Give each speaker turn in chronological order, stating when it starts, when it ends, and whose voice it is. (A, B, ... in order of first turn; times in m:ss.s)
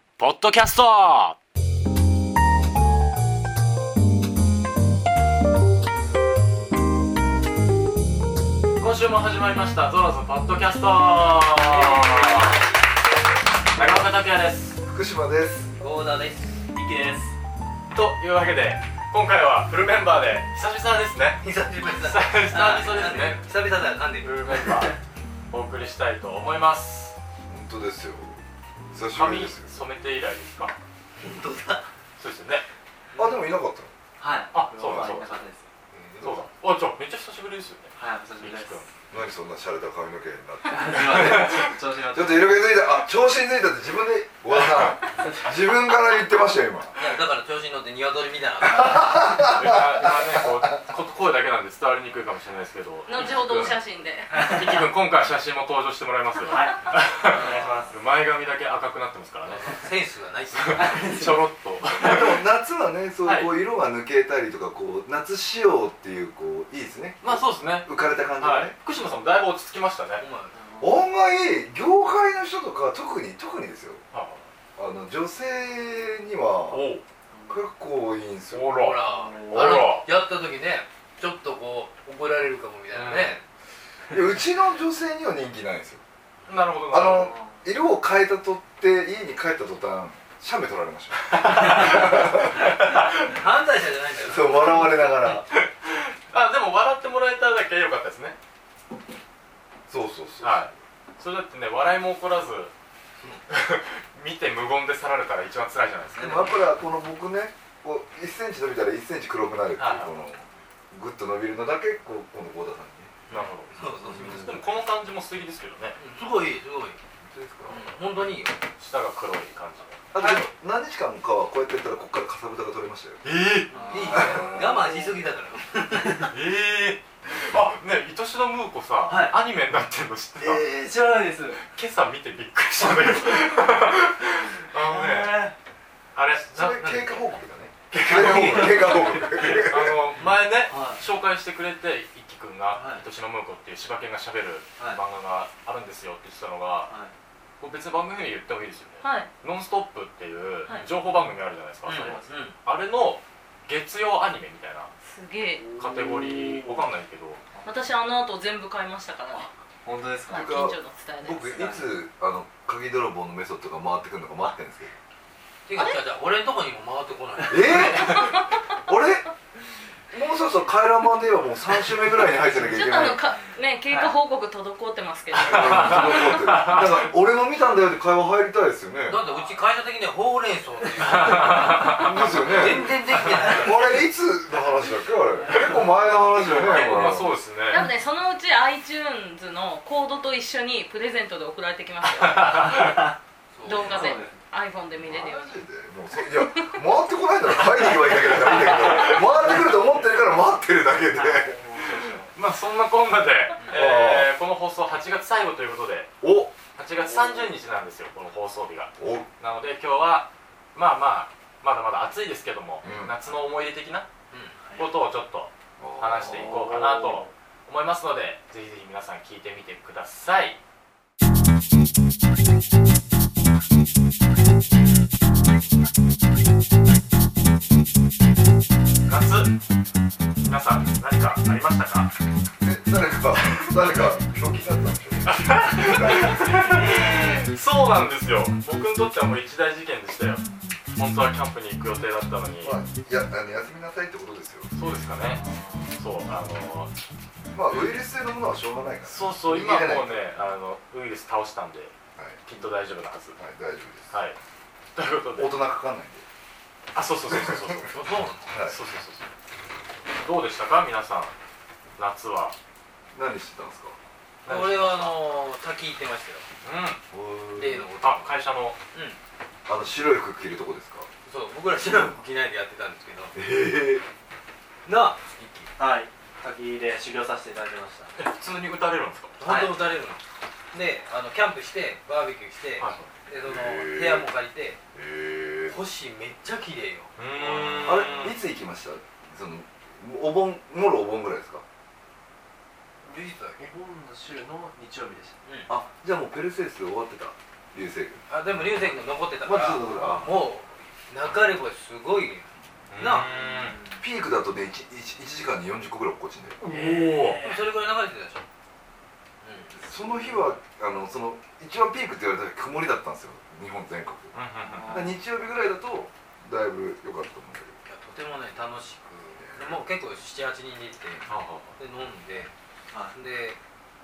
0:00.2-0:01.4 A
0:08.8-0:12.7 A
0:11.7-0:12.6 B
0:13.7-0:14.8 A
0:14.9-0:15.7 C
0:15.8-0:16.6 D
0:16.7-0:17.4 B
0:17.9-0:23.4 A
0:21.4-0:24.3 D
0:24.2-0:25.0 A
0:24.5-0:25.0 B
0:25.5-0:27.2 A
0:27.5-0:28.4 C
0:28.9-0:29.8 C
0:29.1-0:30.8 A
0:31.2-0:31.9 D
0:32.2-0:32.7 A
0:33.1-0:33.4 D
0:33.2-0:33.9 C
0:34.2-0:35.7 B
0:34.5-0:35.4 A
0:34.8-0:35.1 C
0:35.9-0:36.3 D
0:36.2-0:38.9 A
0:38.0-0:38.9 B
0:39.1-0:47.0 C
0:40.7-0:42.7 B
0:40.9-0:41.7 A
0:47.0-0:49.3 D
0:48.7-0:50.6 C
0:49.4-0:53.8 A
0:53.1-0:54.7 E
0:54.4-0:59.9 A
0:56.5-0:58.0 B
0:57.5-0:57.8 D
0:59.5-1:01.3 D
1:00.5-1:02.4 A
1:00.8-1:01.4 B
1:02.0-1:08.8 C
1:03.2-1:03.5 A
1:07.2-1:10.2 A
1:10.2-1:10.6 D
1:10.5-1:11.0 B
1:10.8-1:14.0 C
1:14.1-1:14.5 A
1:14.8-1:16.9 C
1:16.7-1:17.0 A
1:17.3-1:17.6 B
1:17.5-1:18.8 C
1:18.5-1:20.1 A
1:18.7-1:23.4 D
1:19.0-1:19.9 B
1:22.9-1:23.4 A
1:24.1-1:26.0 C
1:26.5-1:27.3 A
1:26.9-1:33.2 C
1:27.1-1:27.6 B
1:31.3-1:32.1 A
1:32.3-1:35.3 D
1:34.3-1:35.5 C
1:35.5-1:38.4 A
1:39.9-1:40.7 C
1:40.4-1:42.7 A
1:43.5-1:46.6 A
1:46.2-1:53.2 C
1:49.8-1:50.2 A
1:53.3-1:54.5 D
1:53.3-1:56.0 A
1:54.1-1:54.6 C
1:56.0-1:57.0 D
1:57.3-1:58.0 C
1:57.7-1:58.6 D
1:58.8-2:00.1 A
2:00.1-2:03.2 C
2:00.2-2:00.5 D
2:03.2-2:03.7 A
2:03.7-2:04.9 B
2:03.8-2:06.3 D
2:04.1-2:04.8 C
2:06.2-2:10.7 A
2:09.1-2:09.4 B
2:10.4-2:11.7 B
2:11.6-2:15.5 A
2:12.8-2:13.8 B
2:14.4-2:15.6 B
2:16.1-2:17.2 A
2:16.4-2:20.0 C
2:16.8-2:17.1 D
2:17.9-2:18.9 D
2:18.0-2:21.0 B
2:18.2-2:18.7 A
2:19.3-2:26.9 A
2:22.7-2:23.0 B
2:26.9-2:27.1 B
2:27.6-2:34.9 A
2:29.0-2:29.3 E
2:30.7-2:31.3 B
2:31.9-2:32.6 D
2:35.0-2:35.7 E
2:35.6-2:36.9 B
2:35.8-2:37.4 A
2:37.5-2:37.9 B
2:37.6-2:39.5 E
2:39.3-2:40.6 B
2:40.3-2:41.8 E
2:40.3-2:45.0 C
2:45.7-2:48.2 D
2:47.5-2:49.3 C
2:48.1-2:48.4 E
2:50.1-2:53.2 C
2:52.6-2:56.4 E
2:55.3-2:57.0 A
2:55.4-2:59.2 C
2:59.1-3:04.0 D
3:01.0-3:02.9 A
3:01.8-3:07.4 C
3:05.3-3:06.9 B
3:05.5-3:07.9 A
3:07.7-3:13.0 E
3:12.0-3:13.1 A
3:13.5-3:14.1 D
3:13.6-3:15.5 E
3:13.8-3:14.4 B
3:15.0-3:21.6 C
3:18.2-3:19.3 A
3:18.7-3:19.9 B
3:21.1-3:22.3 B
3:21.8-3:26.1 A
3:23.7-3:24.4 C
3:26.2-3:26.5 C
3:26.8-3:34.1 A
3:29.0-3:29.3 C
3:32.8-3:33.2 C
3:34.3-3:34.6 D
3:34.6-3:34.9 B
3:34.8-3:40.6 A
3:35.8-3:36.7 C
3:36.3-3:37.3 B
3:49.1-3:49.6 A
3:50.4-3:52.1 A
3:52.6-3:56.5 C
3:55.2-4:00.4 A
3:56.3-3:57.5 B
4:01.0-4:02.8 A
4:02.6-4:04.8 C
4:04.7-4:05.4 A
4:05.4-4:05.9 B
4:06.0-4:06.9 A
4:07.5-4:10.1 C
4:09.1-4:11.9 A
4:12.4-4:13.4 A
4:13.4-4:14.2 C
4:14.1-4:14.4 A
4:15.0-4:15.6 A
4:15.4-4:16.2 C
4:16.9-4:19.3 A
4:17.3-4:17.8 C
4:17.9-4:18.5 D
4:18.5-4:18.8 C
4:20.1-4:21.4 A
4:22.0-4:22.6 A
4:23.1-4:24.0 C
4:24.4-4:25.2 A
4:24.5-4:26.5 D
4:26.6-4:27.0 A
4:27.1-4:27.9 C
4:27.6-4:28.4 D
4:28.0-4:28.8 A
4:28.9-4:29.2 D
4:29.7-4:31.1 C
4:31.3-4:33.4 D
4:33.3-4:34.0 C
4:34.9-4:35.7 D
4:35.8-4:38.2 B
4:38.2-4:39.4 A
4:39.4-4:44.8 D
4:39.4-4:39.8 B
4:43.5-4:44.3 C
4:44.9-4:45.8 C
4:45.7-4:48.3 D
4:47.2-4:48.4 A
4:47.8-4:51.6 C
4:53.0-4:53.7 D
4:53.6-4:55.4 B
4:55.4-4:55.7 D
4:55.7-4:58.2 C
4:58.3-5:03.3 D
4:59.4-5:00.4 C
5:02.9-5:03.8 A
5:03.0-5:04.0 B
5:04.0-5:06.6 C
5:06.6-5:07.4 A
5:06.6-5:07.7 B
5:07.4-5:08.5 D
5:09.4-5:09.8 D
5:09.8-5:14.4 C
5:14.3-5:15.1 A
5:14.6-5:15.2 B
5:14.9-5:17.8 C
5:17.8-5:21.2 D
5:19.4-5:19.8 C
5:21.3-5:21.8 A
5:21.8-5:22.5 D
5:23.1-5:23.6 D